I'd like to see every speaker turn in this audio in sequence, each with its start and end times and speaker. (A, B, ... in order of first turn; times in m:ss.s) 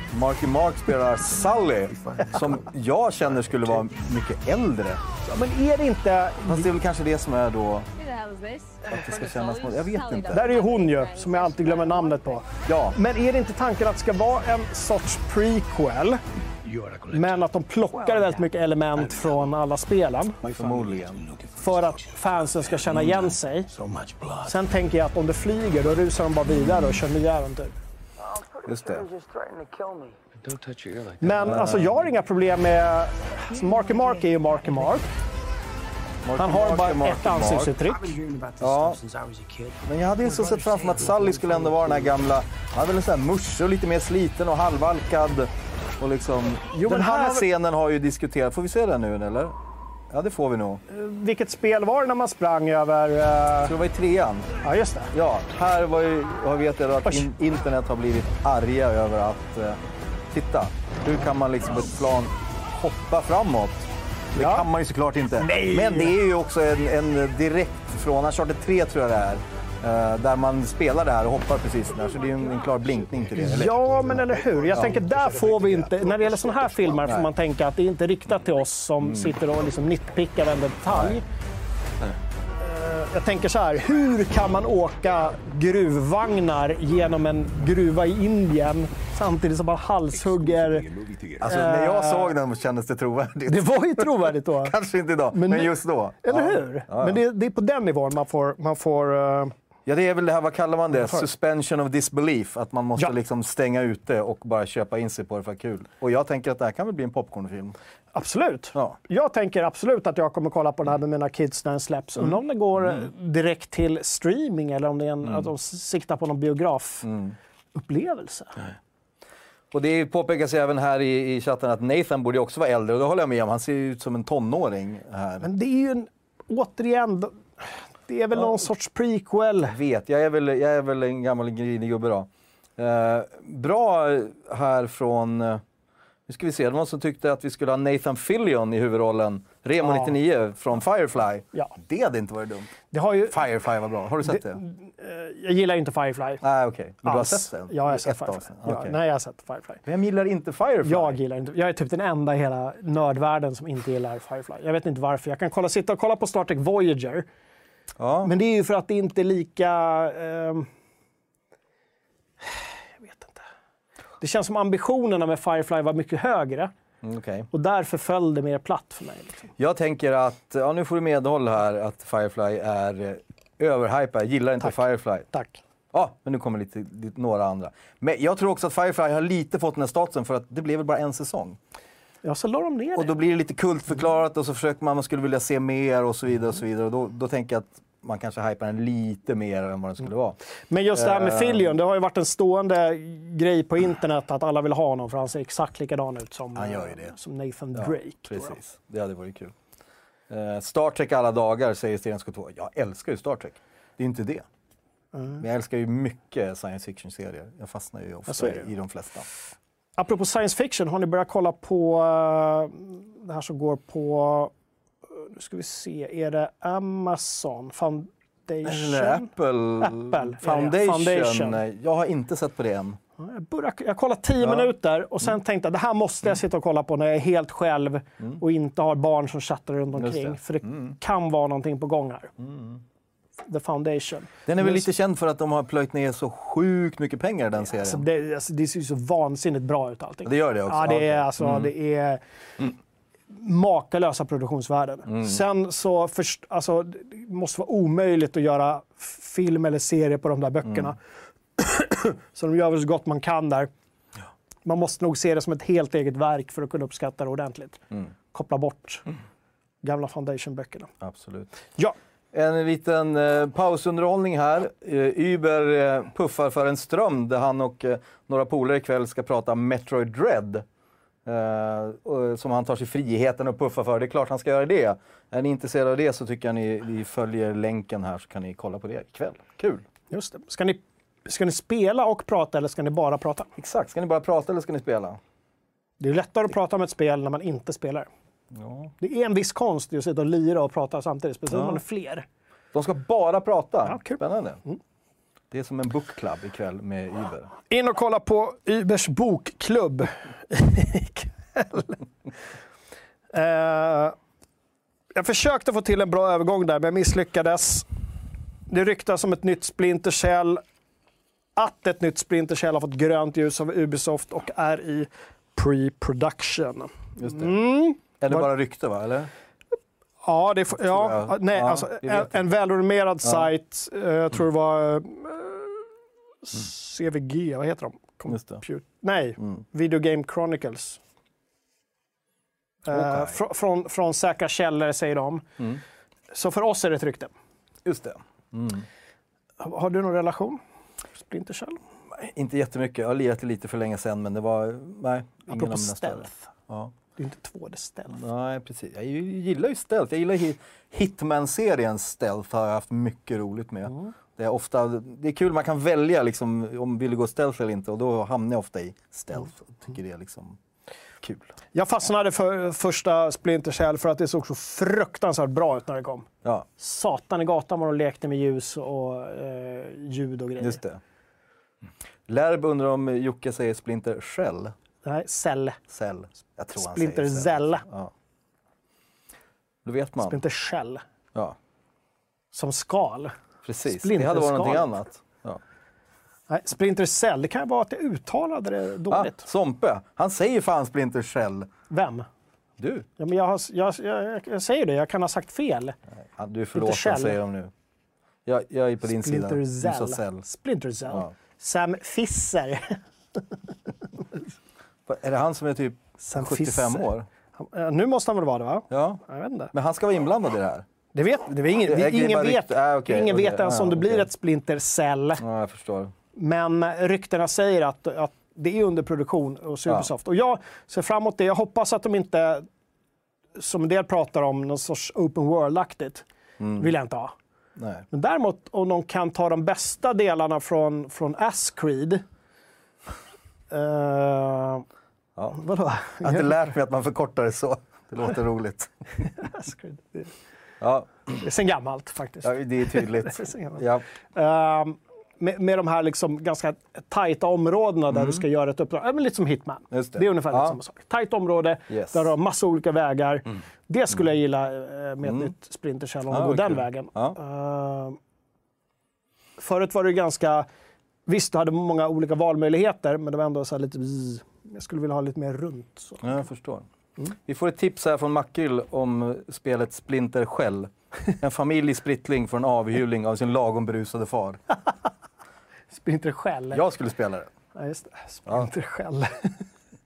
0:00.1-0:05.0 A
0:02.2-0:02.4 B
0:05.2-0:06.7 C
0:06.5-0:07.9 A
0:08.0-0:12.4 D
0:08.9-0:10.4 A
0:10.3-0:16.2 C
0:12.7-0:13.0 A
0:16.6-0:17.4 E
0:17.1-0:20.4 C
0:18.1-0:18.4 B
0:19.0-0:19.5 E
0:20.4-0:21.2 A
0:20.4-0:22.0 E
0:21.6-0:23.7 C
0:22.5-0:24.6 E
0:24.4-0:27.8 C
0:28.2-0:30.2 B
0:28.7-0:29.1 A
0:30.4-0:31.7 E
0:31.2-0:35.1 C
0:31.4-0:31.9 A
0:33.5-0:35.0 B
0:36.2-0:37.7 A
0:36.4-0:38.1 C
0:37.8-0:42.2 B
0:38.6-0:39.0 A
0:39.9-0:49.6 A
0:46.7-0:47.5 C
0:50.1-0:50.8 A
0:50.9-0:53.8 C
0:53.6-0:54.5 A
0:54.6-0:55.1 C
0:55.1-0:59.8 A
1:00.3-1:13.8 A
1:04.4-1:04.7 C
1:05.4-1:06.1 C
1:13.4-1:21.3 C
1:13.6-1:16.0 E
1:14.7-1:15.0 A
1:17.0-1:17.3 A
1:19.0-1:19.4 A
1:20.9-1:21.2 A
1:22.6-1:30.9 C
1:30.1-1:31.7 E
1:31.4-1:37.2 A
1:31.4-1:32.3 C
1:33.5-1:34.8 C
1:35.3-1:39.5 C
1:39.9-1:47.8 A
1:41.0-1:41.2 C
1:48.1-1:57.1 C
1:57.0-1:57.4 A
1:57.8-1:58.7 C
1:59.7-2:05.5 A
2:05.4-2:09.8 C
2:09.7-2:15.6 A
2:16.3-2:22.7 A
2:19.8-2:20.1 C
2:22.9-2:23.4 C
2:23.3-2:24.6 A
2:24.2-2:26.4 C
2:26.4-2:29.0 A
2:27.0-2:29.8 C
2:29.9-2:31.2 A
2:30.8-2:37.3 C
2:38.0-2:38.3 A
2:38.2-2:40.7 C
2:42.4-2:43.4 C
2:44.2-2:46.7 C
2:47.0-2:47.5 A
2:47.5-2:49.5 C
2:49.6-2:55.3 A
2:55.3-2:55.6 C
2:55.9-3:01.6 A
3:02.2-3:03.1 C
3:03.0-3:10.4 A
3:10.7-3:18.6 C
3:10.9-3:11.7 A
3:16.6-3:17.1 A
3:17.8-3:19.5 A
3:20.3-3:24.4 A
3:25.1-3:25.4 C
3:25.4-3:29.3 A
3:28.3-3:28.7 C
3:30.0-3:34.5 C
3:35.1-3:39.3 C
3:38.6-3:43.0 A
3:39.8-3:41.6 C
3:43.2-3:52.3 C
3:44.4-3:44.7 A
3:50.0-3:51.0 A
3:52.4-3:52.8 A
3:53.4-3:54.9 C
3:54.5-3:58.0 A
3:57.7-4:02.2 C
4:00.2-4:01.7 A
4:03.3-4:11.0 C
4:05.1-4:05.4 A
4:11.6-4:13.7 C
4:14.6-4:19.1 C
4:19.8-4:20.9 C
4:21.0-4:21.5 A
4:22.3-4:30.6 A
4:31.3-4:39.8 A
4:40.1-4:43.5 C
4:43.6-4:45.2 A
4:46.0-4:48.1 C
4:48.5-4:48.9 A
4:49.0-4:52.3 C
4:51.5-4:51.8 A
4:52.7-4:54.6 A
4:53.8-4:54.8 C
4:55.5-4:57.5 A
4:57.7-5:02.0 C
5:03.3-5:04.2 C
5:05.1-5:07.9 C
5:08.7-5:10.6 C
5:11.6-5:18.5 C
5:17.2-5:17.5 A
5:18.2-5:19.3 A
5:20.2-5:25.9 C
5:20.8-5:22.3 A
5:26.4-5:31.0 C
5:28.3-5:28.6 A
5:32.9-5:35.5 C
5:32.9-5:33.4 A
5:36.3-5:37.3 C
5:37.8-5:38.9 A
5:39.6-5:40.6 C
5:41.1-5:41.8 C
5:42.1-5:46.9 A
5:45.5-5:46.5 C
5:47.2-5:48.2 C
5:48.1-6:00.6 A
6:01.2-6:01.5 A
6:01.7-6:10.8 C
6:10.6-6:11.0 A
6:12.3-6:14.7 A
6:15.0-6:15.8 C
6:15.9-6:18.1 A
6:16.8-6:17.8 C
6:19.8-6:20.4 A
6:20.2-6:21.0 C
6:22.5-6:23.3 C
6:23.6-6:25.6 A
6:23.9-6:24.9 C
6:26.5-6:29.5 C
6:29.1-6:31.7 A
6:31.9-6:32.3 C
6:32.8-6:33.1 A
6:33.2-6:36.0 C
6:36.4-6:37.7 A
6:36.8-6:37.4 C
6:38.5-6:40.4 A
6:39.1-6:43.6 C
6:45.1-6:47.3 A
6:46.2-6:49.7 C
6:48.9-6:49.2 A
6:49.7-6:50.8 A
6:51.1-6:55.4 C
6:51.9-6:54.3 A
6:55.4-6:56.1 A
6:56.4-7:02.7 C
7:03.6-7:06.2 C
7:06.6-7:06.9 A
7:06.8-7:07.3 C
7:07.8-7:08.1 A
7:08.1-7:12.2 C
7:13.7-7:14.8 C
7:15.5-7:16.5 C
7:16.2-7:18.9 A
7:19.3-7:20.3 C
7:20.8-7:21.4 A
7:21.4-7:23.8 C
7:22.4-7:24.0 A
7:24.4-7:38.2 C
7:28.1-7:28.4 A
7:29.9-7:30.8 A
7:31.9-7:32.3 A
7:35.2-7:35.5 A
7:36.3-7:37.4 A
7:39.6-7:40.7 C
7:41.3-7:46.4 C
7:46.2-7:46.9 A
7:47.5-7:54.6 A
7:55.9-7:56.8 C
7:56.7-7:57.5 A
7:57.8-7:59.6 C